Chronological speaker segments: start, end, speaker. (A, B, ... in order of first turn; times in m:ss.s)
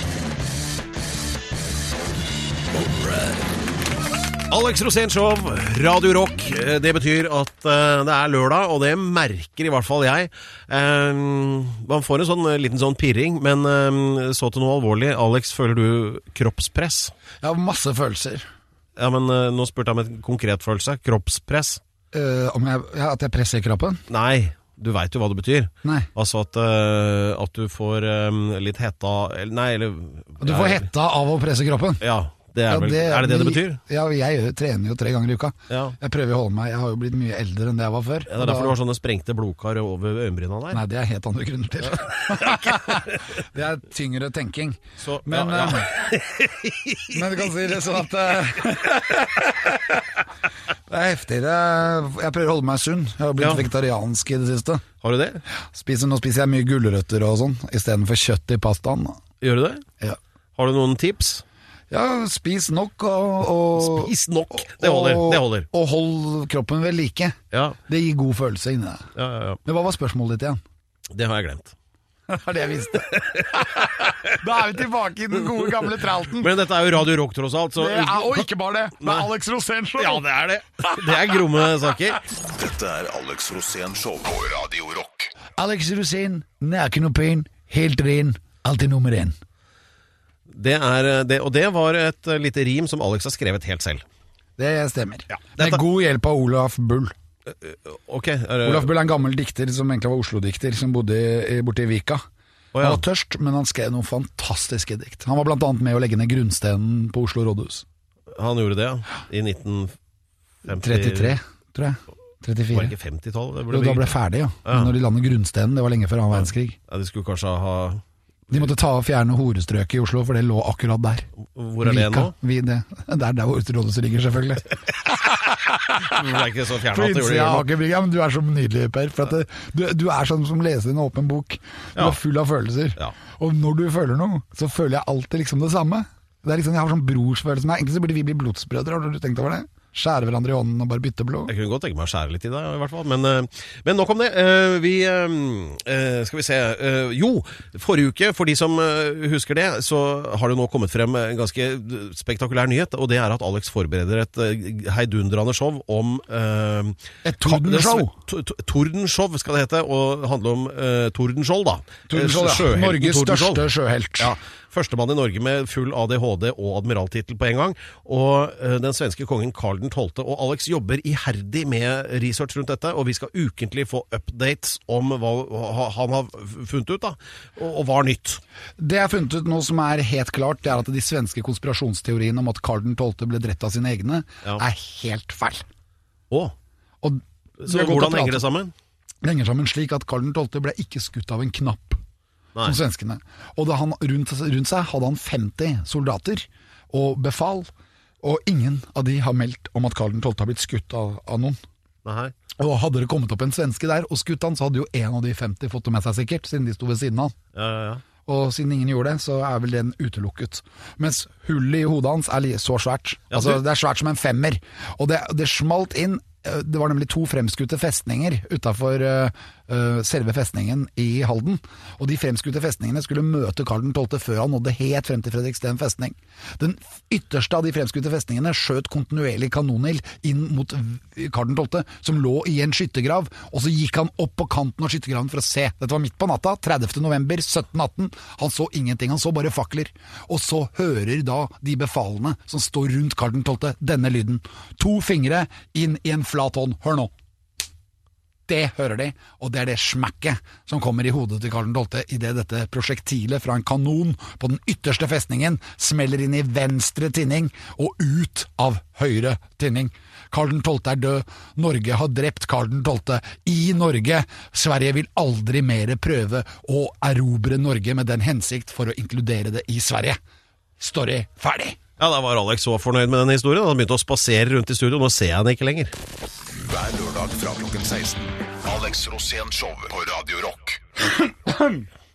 0:02.7-0:03.4 A
0:04.5-0:17.1 B
0:17.4-0:18.5 A
0:19.0-0:21.8 B
0:22.1-0:24.0 A
0:24.1-0:30.9 B
0:30.4-0:32.0 A
0:32.0-0:33.8 B
0:32.7-0:38.8 A
0:35.7-0:36.0 B
0:38.3-0:40.8 B
0:40.7-0:45.9 A
0:42.0-0:42.8 B
0:45.0-0:47.2 B
0:47.1-0:50.0 A
0:50.9-0:54.8 A
0:53.4-0:53.7 B
0:55.0-0:55.4 B
0:55.7-0:59.2 A
0:59.4-0:59.8 B
1:00.6-1:01.4 B
1:01.9-1:09.1 A
1:03.8-1:05.7 B
1:07.5-1:07.8 B
1:09.2-1:09.6 B
1:09.6-1:10.6 A
1:11.1-1:11.7 B
1:12.3-1:16.5 A
1:12.9-1:14.3 B
1:16.3-1:18.5 B
1:17.8-1:20.3 A
1:19.0-1:19.3 B
1:20.0-1:22.2 B
1:20.8-1:21.3 A
1:22.4-1:25.3 C
1:25.6-1:29.4 A
1:30.5-1:34.0 B
1:34.6-1:37.1 A
1:35.3-1:35.8 B
1:37.5-1:38.9 B
1:38.6-1:42.2 A
1:42.7-1:43.0 B
1:42.8-1:47.8 A
1:48.3-1:50.0 B
1:50.6-1:51.4 B
1:50.7-1:52.9 A
1:52.7-1:54.2 B
1:53.7-1:56.8 A
1:54.7-1:54.9 B
1:56.4-1:58.0 B
1:58.5-2:01.3 A
2:01.5-2:02.3 B
2:01.8-2:06.2 A
2:06.0-2:07.7 B
2:06.9-2:21.5 A
2:21.5-2:43.6 B
2:37.2-2:38.1 A
2:42.1-2:44.3 A
2:44.2-2:58.4 B
2:58.8-3:05.6 A
3:07.0-3:08.4 A
3:07.6-3:08.7 B
3:09.2-3:12.0 A
3:12.6-3:17.7 A
3:18.2-3:21.6 A
3:22.0-3:22.3 B
3:22.6-3:27.3 A
3:27.5-3:28.0 B
3:28.3-4:07.1 A
3:33.3-3:33.6 B
4:08.5-4:30.2 A
4:30.8-4:31.8 A
4:32.0-4:36.0 B
4:36.6-4:40.8 C
4:41.1-4:41.9 A